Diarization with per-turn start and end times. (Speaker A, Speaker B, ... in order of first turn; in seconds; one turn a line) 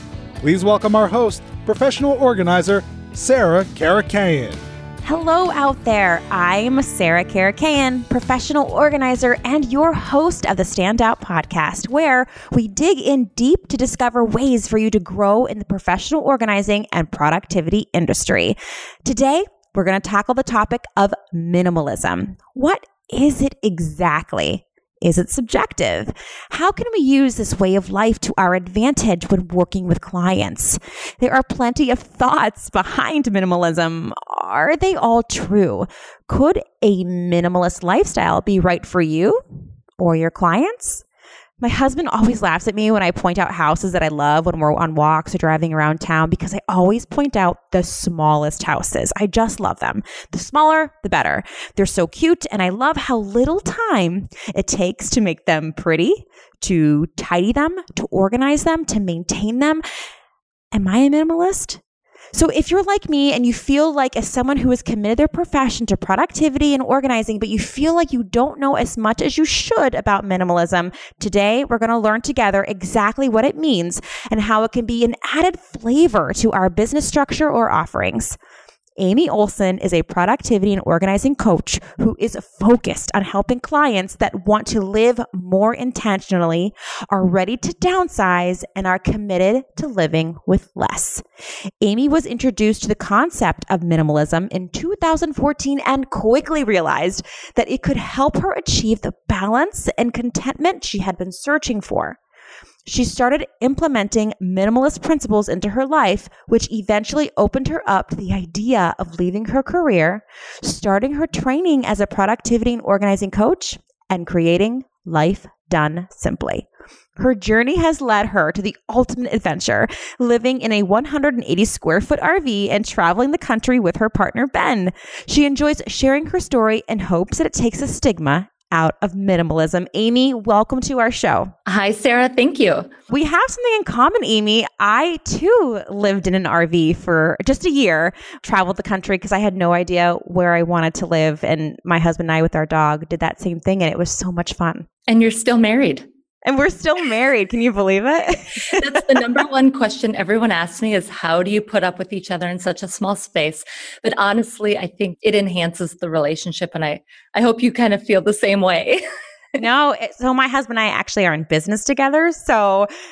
Speaker A: 0.4-4.6
Speaker B: 5.0-39.4
Speaker B: 40.0-41.0
Speaker B: 41.6-59.8
Speaker B: 60.7-61.8
Speaker B: 62.3-78.4
Speaker B: 79.0-91.2
Speaker B: 91.8-102.2
Speaker B: 102.9-131.5
Speaker C: 131.7-132.9
Speaker B: 133.1-144.9
Speaker C: 145.1-146.1
Speaker B: 146.4-149.0
Speaker C: 148.7-159.0
Speaker B: 159.6-162.9